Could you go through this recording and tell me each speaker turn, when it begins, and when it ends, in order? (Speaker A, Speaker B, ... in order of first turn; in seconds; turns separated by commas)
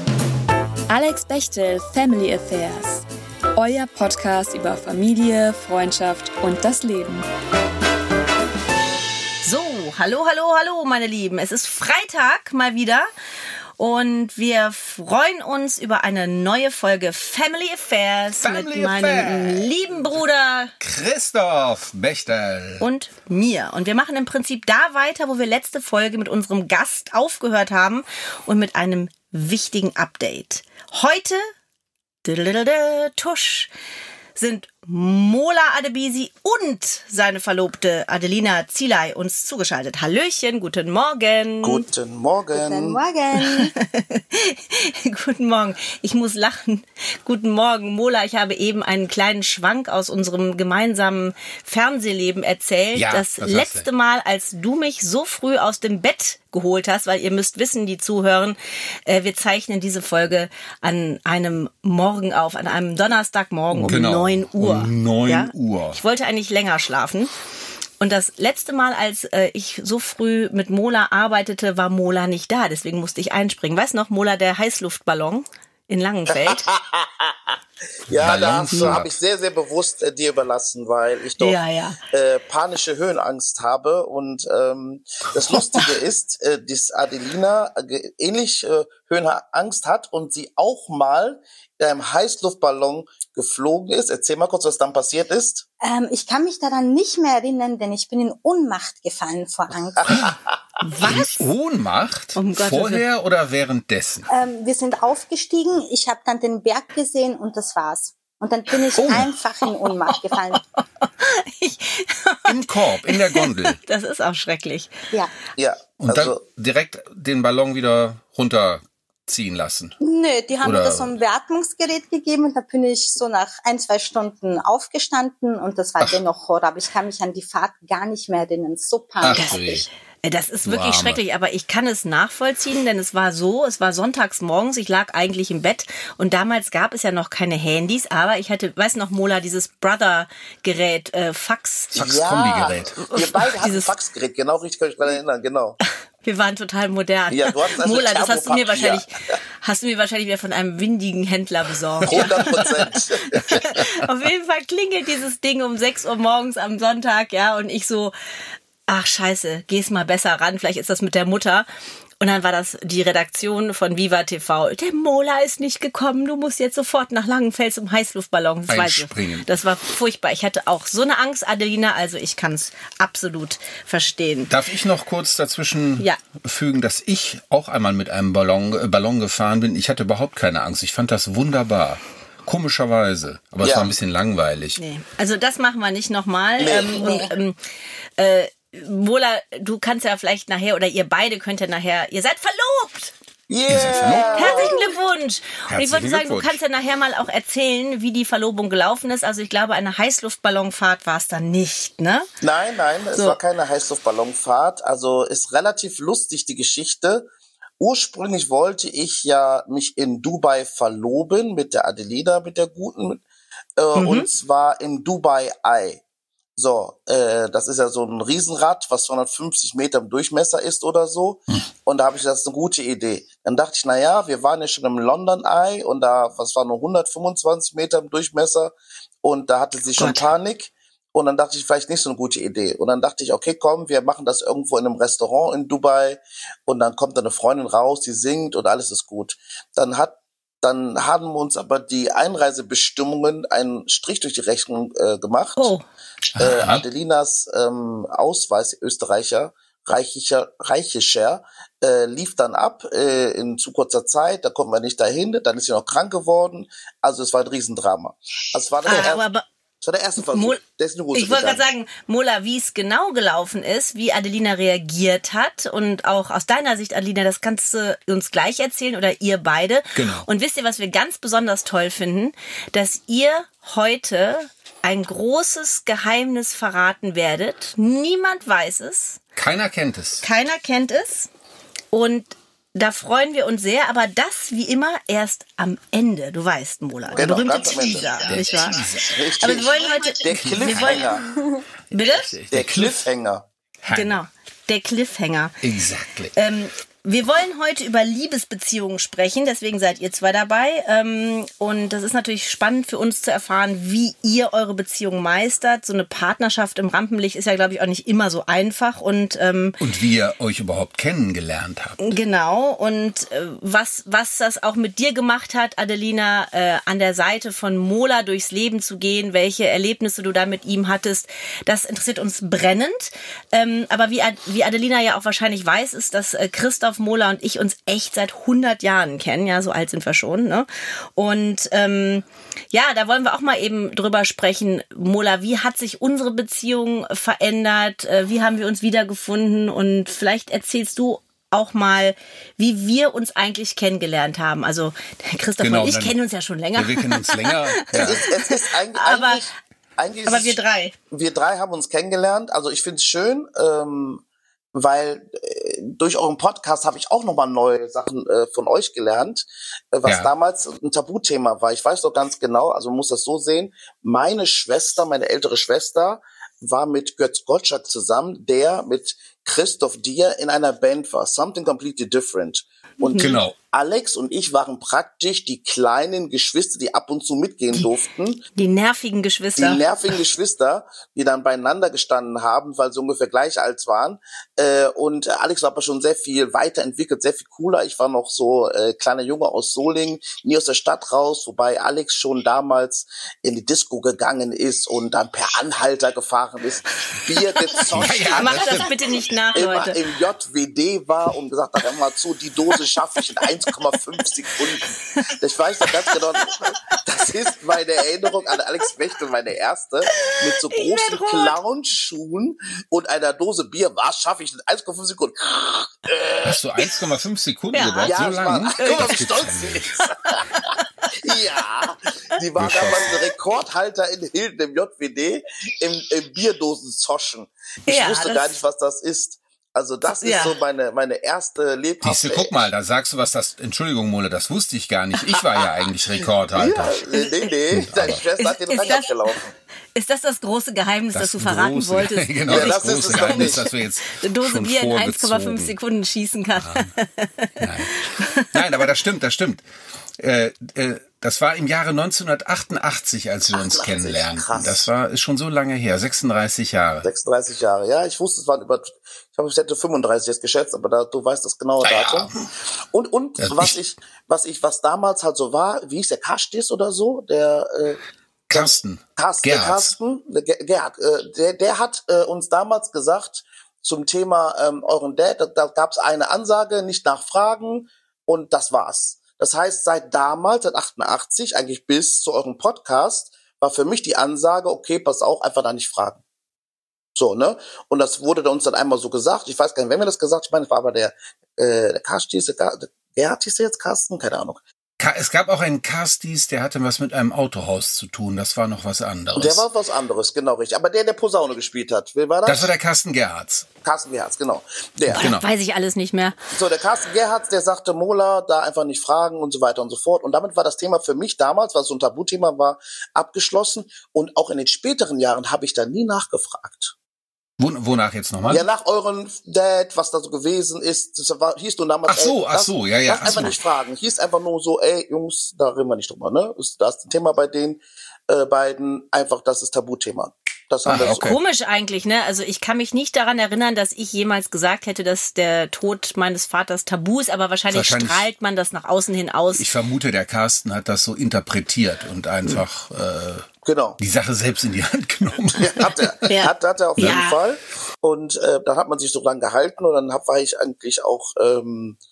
Speaker A: 0.9-7.2, Speaker B: 9.4-13.1, Speaker B: 13.8-20.7, Speaker C: 18.4-19.7, Speaker C: 20.8-22.9, Speaker B: 22.8-31.5, Speaker B: 32.2-33.7, Speaker B: 34.4-41.8, Speaker D: 41.6-43.0, Speaker E: 42.5-43.7, Speaker B: 43.4-67.3, Speaker C: 52.9-53.9, Speaker C: 63.7-66.0, Speaker B: 68.0-76.7, Speaker D: 76.3-77.6, Speaker D: 78.1-81.6, Speaker C: 78.1-79.1, Speaker B: 78.7-79.0, Speaker B: 81.4-82.0, Speaker D: 82.1-95.6, Speaker E: 95.8-100.3, Speaker D: 100.0-100.6, Speaker B: 100.8-101.4, Speaker C: 101.0-104.3, Speaker B: 102.3-103.0, Speaker E: 104.3-110.6, Speaker C: 109.0-109.3, Speaker B: 110.1-114.9, Speaker C: 112.5-113.8, Speaker D: 115.6-116.4, Speaker C: 116.0-120.0, Speaker E: 120.0-129.8, Speaker C: 120.6-121.1, Speaker C: 129.2-129.8, Speaker B: 129.2-141.9, Speaker C: 130.6-131.2, Speaker C: 141.9-143.0, Speaker D: 141.9-145.8, Speaker B: 143.0-143.9, Speaker B: 146.2-152.9, Speaker D: 147.3-149.4, Speaker D: 152.1-153.7, Speaker C: 152.1-152.7, Speaker C: 153.3-154.0, Speaker B: 153.5-158.1, Speaker B: 158.9-161.7, Speaker B: 162.2-174.5, Speaker C: 168.7-169.5, Speaker C: 174.5-184.8, Speaker D: 183.6-183.9, Speaker B: 184.8-187.6, Speaker D: 186.6-187.2, Speaker E: 186.9-187.2, Speaker B: 188.2-193.1, Speaker D: 193.5-194.8, Speaker C: 193.7-194.5, Speaker B: 194.4-202.3, Speaker C: 195.7-196.6, Speaker D: 202.4-207.3, Speaker B: 203.1-203.4, Speaker D: 207.8-213.2, Speaker D: 213.8-216.0, Speaker B: 213.9-214.3, Speaker D: 216.6-245.7, Speaker B: 230.0-230.2, Speaker B: 245.6-245.8, Speaker C: 246.3-246.8, Speaker D: 246.3-259.2, Speaker B: 258.9-259.5, Speaker D: 259.8-261.7, Speaker B: 260.2-260.6, Speaker B: 261.1-279.2, Speaker C: 269.9-270.3, Speaker C: 279.4-280.2, Speaker B: 280.2-281.3, Speaker B: 281.9-288.9, Speaker D: 287.2-288.4, Speaker C: 288.3-289.2, Speaker D: 289.0-291.3, Speaker B: 289.4-291.2, Speaker C: 290.3-291.1, Speaker B: 291.9-292.4, Speaker C: 292.0-293.0, Speaker D: 292.5-293.5, Speaker C: 293.8-294.2, Speaker B: 293.9-295.7, Speaker C: 295.6-296.4, Speaker B: 296.3-309.8, Speaker C: 309.8-312.0, Speaker B: 312.0-349.4, Speaker C: 345.6-346.1, Speaker C: 346.7-348.2, Speaker D: 347.9-350.6, Speaker B: 350.3-350.9, Speaker D: 351.1-354.2, Speaker D: 354.7-378.4, Speaker B: 373.0-373.4, Speaker C: 373.2-373.6, Speaker B: 378.6-379.9, Speaker D: 379.6-398.9, Speaker C: 397.8-398.9, Speaker B: 398.3-400.0, Speaker D: 399.5-416.6, Speaker B: 405.9-406.5, Speaker B: 410.2-411.6, Speaker C: 416.4-420.0, Speaker B: 417.7-418.2, Speaker D: 418.0-432.6, Speaker B: 418.8-419.3, Speaker B: 420.8-421.1, Speaker C: 422.6-423.2, Speaker B: 427.9-428.6, Speaker B: 430.2-430.6, Speaker C: 432.0-437.0, Speaker D: 436.6-439.5, Speaker C: 437.7-438.2, Speaker B: 438.4-439.1, Speaker B: 439.9-448.6, Speaker C: 441.1-445.7, Speaker D: 442.5-443.6, Speaker C: 446.6-446.9, Speaker C: 447.6-449.7, Speaker C: 450.2-457.1, Speaker D: 453.5-454.9, Speaker D: 457.0-462.3, Speaker C: 461.9-462.4, Speaker D: 462.9-486.2, Speaker C: 463.4-463.8, Speaker C: 468.5-469.9, Speaker D: 487.1-494.6, Speaker C: 495.0-499.6, Speaker D: 499.3-502.7, Speaker C: 502.4-503.7, Speaker D: 503.8-505.3, Speaker C: 505.1-505.4, Speaker B: 505.1-506.4, Speaker D: 506.5-516.9, Speaker C: 517.6-518.6, Speaker D: 518.5-531.4, Speaker C: 522.1-523.6, Speaker C: 530.9-531.4, Speaker B: 531.1-539.6, Speaker C: 537.7-538.2, Speaker C: 539.5-543.5, Speaker D: 543.6-544.0, Speaker C: 544.0-546.2, Speaker D: 545.6-552.0, Speaker B: 546.2-547.4